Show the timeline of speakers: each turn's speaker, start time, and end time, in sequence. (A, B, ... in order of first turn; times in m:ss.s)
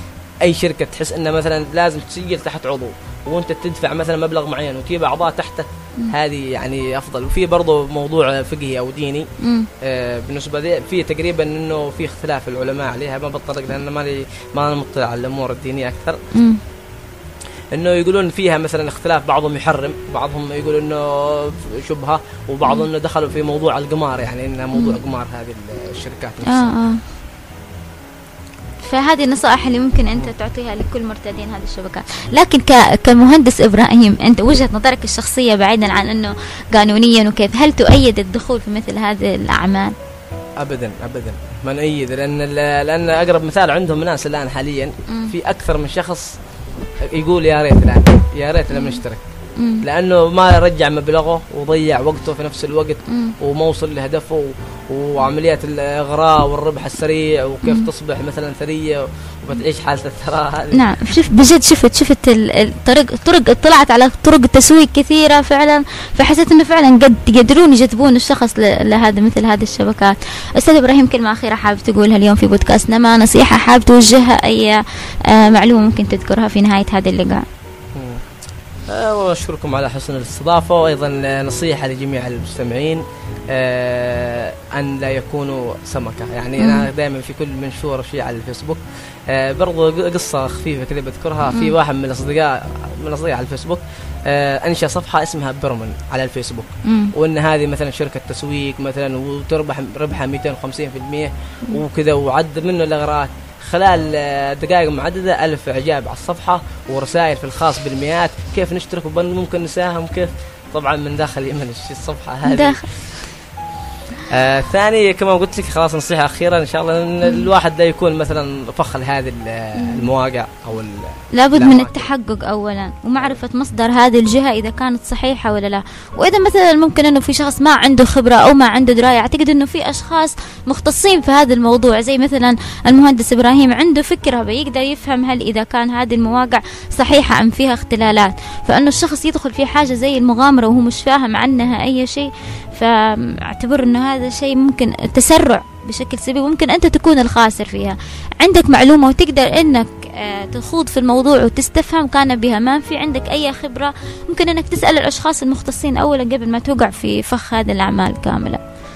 0:00.4-0:09.3 A
0:09.4-0:09.7 B
0:09.8-0:16.2 A
0:16.3-0:16.6 B
0:17.7-0:26.8 A
0:26.4-0:27.0 B
0:28.8-0:39.9 B
0:40.6-0:46.4 A
0:45.1-0:45.3 B
0:47.1-0:49.3 A
0:48.7-0:49.0 B
0:49.6-0:49.8 B
0:49.8-1:00.8 A
0:53.1-0:53.3 B
1:00.7-1:17.4 B
1:17.9-1:18.2 A
1:18.9-1:53.2 A
1:26.6-1:26.9 B
1:36.8-1:37.1 B
1:52.4-1:52.9 B
1:54.3-2:02.1 A
1:57.2-1:57.5 B
1:59.8-2:00.0 B
2:01.3-2:38.6 B